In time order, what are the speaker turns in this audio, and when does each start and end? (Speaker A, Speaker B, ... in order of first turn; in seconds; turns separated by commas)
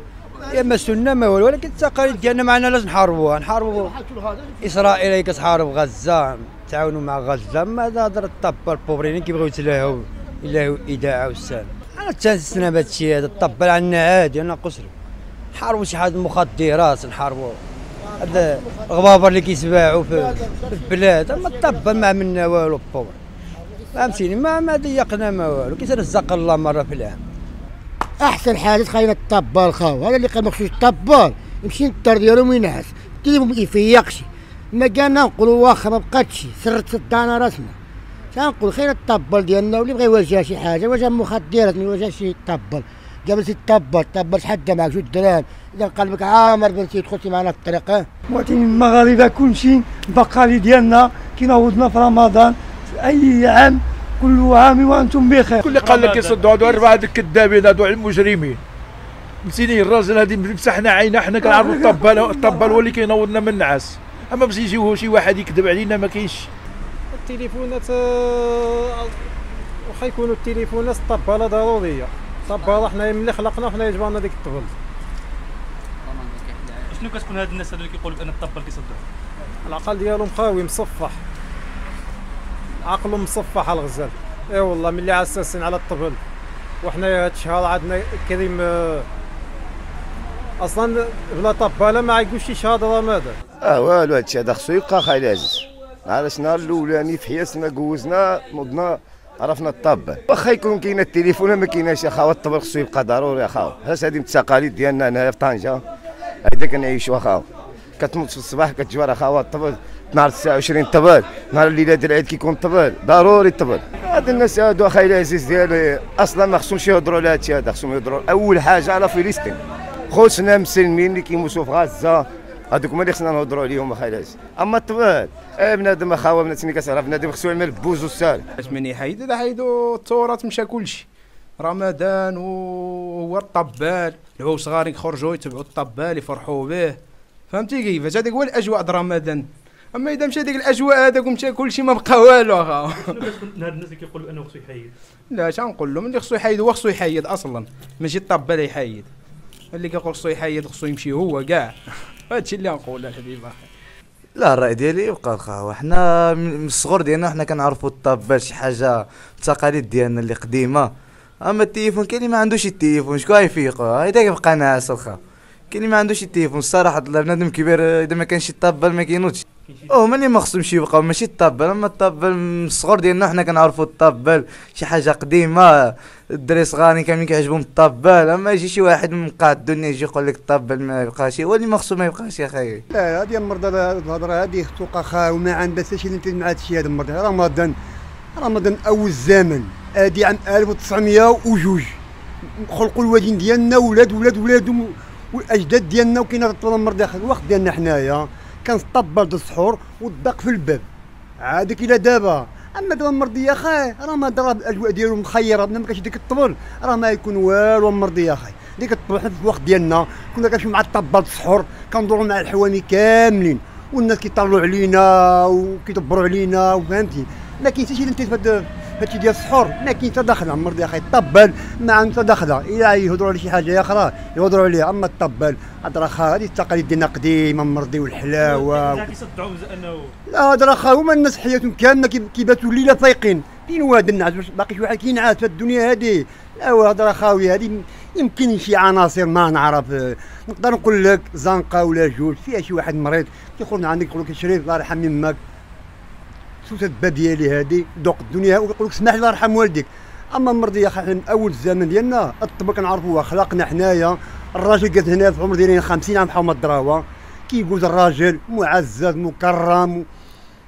Speaker A: 0.5-3.9, Speaker A: 4.6-14.9, Speaker A: 15.6-17.6, Speaker A: 18.2-23.2, Speaker A: 23.9-27.2, Speaker B: 28.2-37.7, Speaker B: 38.3-48.1, Speaker C: 48.3-55.8, Speaker D: 55.6-58.6, Speaker E: 55.8-56.9, Speaker D: 59.4-66.5, Speaker C: 61.4-62.9, Speaker F: 67.1-69.1, Speaker F: 69.9-74.7, Speaker E: 76.9-79.0, Speaker F: 79.6-81.2, Speaker F: 82.9-86.2, Speaker F: 86.8-89.0, Speaker F: 90.6-93.4, Speaker G: 93.6-105.8, Speaker G: 106.5-107.4, Speaker G: 108.0-119.6, Speaker G: 120.1-128.4, Speaker H: 128.6-131.1, Speaker H: 131.6-137.0, Speaker H: 137.5-143.3, Speaker E: 143.1-144.9, Speaker H: 145.3-149.1, Speaker H: 149.7-153.7, Speaker I: 154.3-160.9, Speaker I: 161.4-165.2, Speaker I: 165.7-182.8, Speaker J: 182.9-187.8, Speaker J: 188.3-192.0, Speaker J: 192.6-200.8, Speaker J: 201.4-229.1, Speaker E: 228.4-230.1, Speaker J: 230.3-245.4, Speaker J: 246.7-260.1